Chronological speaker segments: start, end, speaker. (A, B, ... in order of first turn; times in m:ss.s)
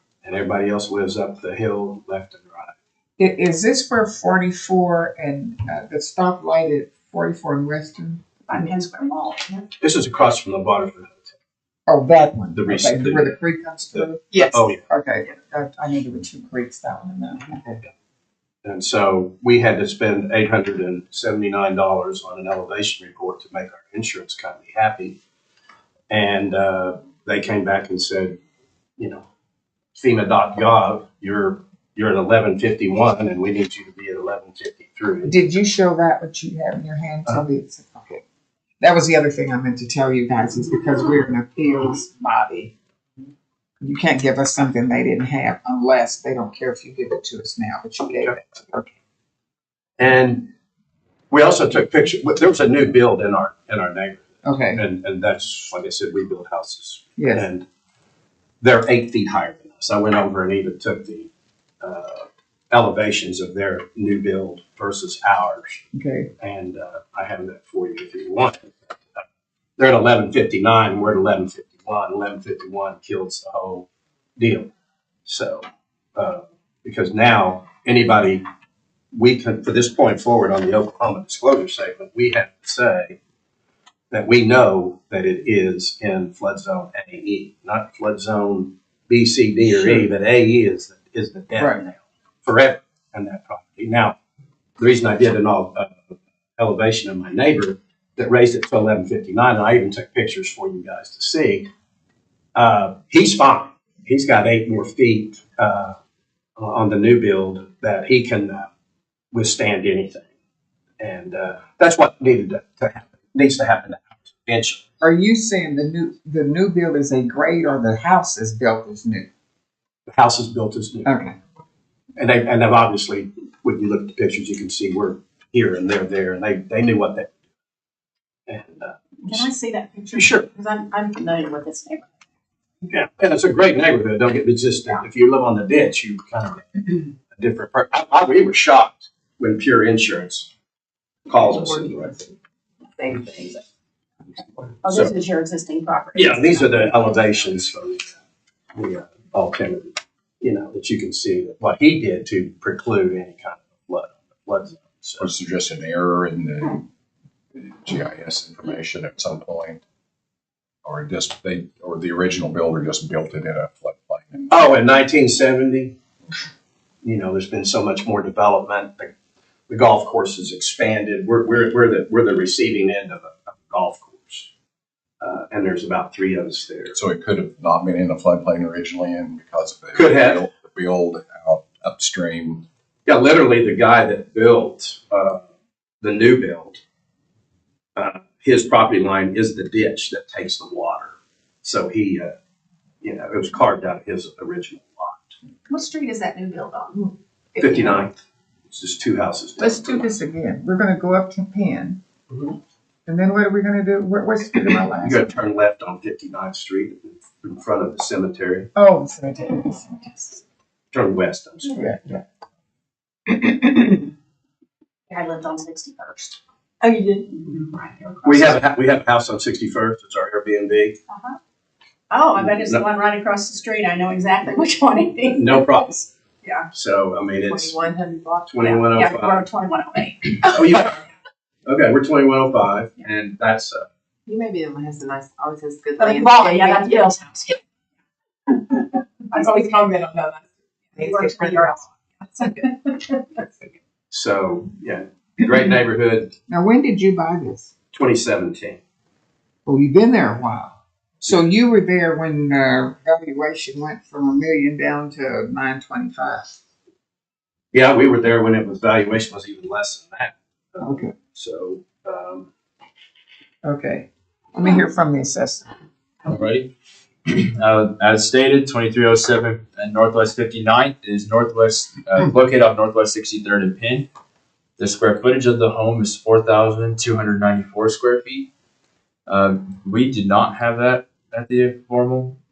0:00.2-0:02.8 A
0:03.2-0:08.2 B
0:08.5-0:09.6 C
0:09.8-0:11.4 A
0:11.9-0:14.3 B
0:12.6-0:13.4 A
0:13.9-0:14.8 A
0:14.8-0:17.8 B
0:18.6-0:25.2 A
0:26.1-0:28.4 A
0:29.0-0:29.3 A
0:30.0-0:35.3 A
0:35.2-0:38.2 B
0:38.8-0:42.7 B
0:43.8-0:48.9 B
0:50.0-0:50.5 A
0:51.3-0:57.7 A
0:54.4-0:54.8 B
0:57.2-0:57.4 B
0:58.6-1:01.3 A
1:01.8-1:05.8 A
1:05.9-1:06.3 B
1:06.4-1:08.7 A
1:09.8-1:14.7 A
1:15.2-1:15.6 A
1:16.2-1:18.4 A
1:19.1-1:23.2 A
1:24.1-1:34.2 A
1:31.6-1:31.8 B
1:34.8-1:36.0 A
1:36.6-1:41.7 A
1:42.6-1:46.0 A
1:46.6-1:48.7 A
1:49.3-1:50.3 A
1:51.0-1:54.8 A
1:55.0-1:59.3 B
2:00.1-2:01.1 A
2:01.0-2:01.3 B
2:02.2-2:07.3 A
2:08.5-2:09.5 A
2:09.2-2:12.1 C
2:10.2-2:10.5 A
2:12.9-2:20.5 A
2:21.3-2:22.3 A
2:23.0-2:23.6 C
2:24.8-2:27.0 C
2:24.9-2:25.1 A
2:26.2-2:28.1 A
2:28.8-2:35.3 A
2:35.2-2:36.8 D
2:37.5-2:39.8 D
2:40.8-2:44.8 D
2:44.5-2:46.0 A
2:47.0-2:49.1 A
2:49.7-2:54.5 A
2:55.2-2:57.0 A
2:56.9-3:02.7 D
2:59.9-3:00.5 A
3:03.1-3:05.4 A
3:06.0-3:06.8 A
3:08.0-3:12.3 A
3:13.0-3:15.3 A
3:15.7-3:17.1 C
3:17.6-3:18.2 A
3:18.7-3:20.1 A
3:19.6-3:22.0 B
3:22.3-3:22.6 A
3:23.1-3:25.3 B
3:25.0-3:28.7 A
3:28.8-3:30.4 B
3:30.9-3:31.8 A
3:31.7-3:32.2 B
3:33.3-3:34.0 B
3:35.1-3:38.5 C
3:38.2-3:41.0 A
3:41.1-3:41.4 C
3:42.1-3:46.7 C
3:42.4-3:42.8 A
3:45.3-3:46.1 A
3:46.7-3:47.8 A
3:47.4-3:48.7 E
3:48.5-3:49.4 A
3:48.8-3:50.6 C
3:50.5-3:51.0 A
3:51.7-3:53.9 A
3:54.3-3:57.1 E
3:56.0-3:57.6 C
3:59.3-4:00.4 C
3:59.4-3:59.8 E
4:01.0-4:01.8 C
4:01.0-4:01.8 E
4:04.1-4:06.3 A
4:06.5-4:07.7 B
4:07.9-4:08.8 A
4:09.7-4:16.5 B
4:17.7-4:22.5 A
4:20.8-4:21.1 B
4:23.6-4:25.7 B
4:26.2-4:26.7 F
4:27.3-4:34.1 F
4:34.8-4:38.5 F
4:39.3-4:42.4 F